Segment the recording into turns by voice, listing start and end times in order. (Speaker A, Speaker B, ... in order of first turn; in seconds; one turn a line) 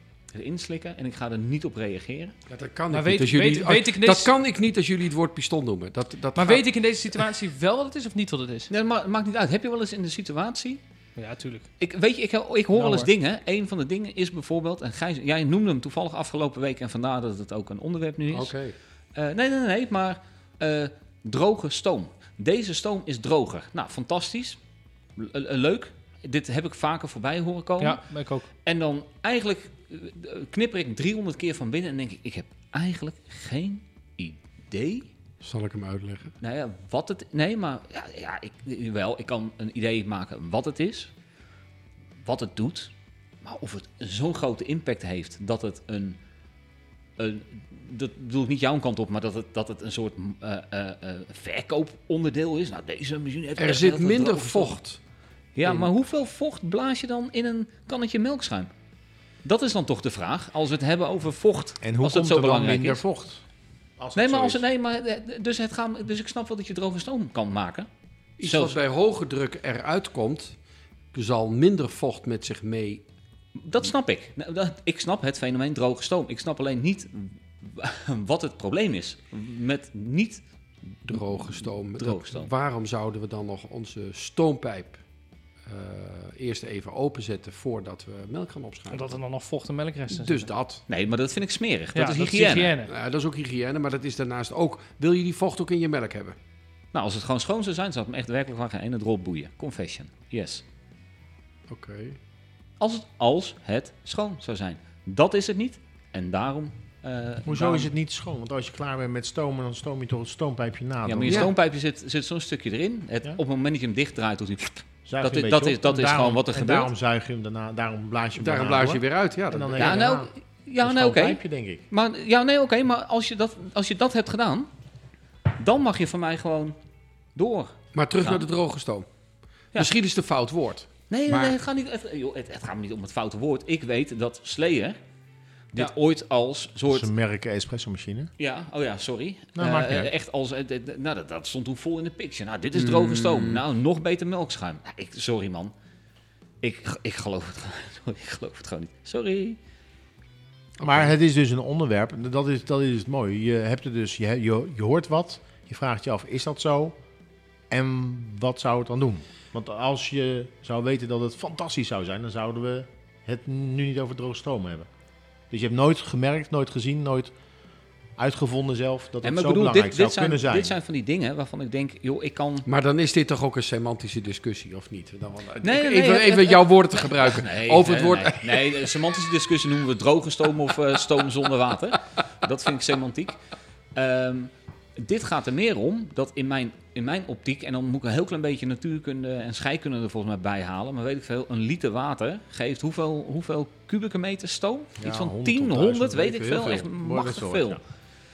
Speaker A: 0.3-2.3
Speaker B: 2.5-7.3
Speaker C: 2.9-4.3
Speaker C: 6.3-8.7
Speaker A: 8.7-10.8
Speaker C: 11.2-11.7
Speaker A: 11.8-18.5
Speaker C: 12.7-13.1
Speaker B: 18.3-18.7
Speaker A: 19.1-24.6
Speaker A: 25.1-28.0
Speaker C: 27.8-28.5
Speaker A: 28.6-35.1
Speaker B: 35.4-36.3
Speaker A: 36.4-41.1
Speaker A: 42.2-42.9
Speaker A: 43.4-46.2
Speaker A: 47.2-54.8
Speaker B: 53.6-55.0
Speaker A: 55.5-58.7
Speaker B: 55.6-55.9
Speaker A: 59.4-63.0
Speaker D: 61.8-63.4
Speaker D: 64.0-64.6
Speaker A: 64.1-67.9
Speaker B: 68.4-70.5
Speaker A: 68.4-68.8
Speaker B: 71.1-73.0
Speaker A: 73.5-80.4
Speaker B: 81.0-85.0
Speaker A: 81.1-82.5
Speaker B: 85.7-89.2
Speaker C: 88.9-90.5
Speaker B: 90.1-90.8
Speaker A: 90.9-92.7
Speaker C: 91.9-92.9
Speaker B: 92.8-96.3
Speaker A: 96.9-100.6
Speaker B: 101.7-102.2
Speaker A: 102.8-107.9
Speaker D: 107.5-111.5
Speaker A: 111.0-116.9
Speaker D: 115.0-120.3
Speaker B: 118.4-120.1
Speaker A: 119.8-124.7
Speaker D: 120.8-121.8
Speaker A: 125.5-126.8
Speaker A: 127.3-128.4
Speaker B: 127.9-129.1
Speaker B: 129.7-131.6
Speaker A: 131.1-135.0
Speaker A: 135.7-137.1
Speaker D: 136.9-138.3
Speaker A: 138.4-145.7
Speaker D: 139.6-140.1
Speaker B: 142.7-143.6
Speaker A: 146.6-149.6
Speaker B: 150.8-151.1
Speaker D: 150.8-157.0
Speaker D: 157.7-164.9
Speaker D: 165.5-167.3
Speaker D: 168.2-170.7
Speaker A: 169.2-172.7
Speaker B: 172.7-178.8
Speaker A: 175.6-183.4
Speaker A: 183.9-197.8
Speaker D: 195.0-197.8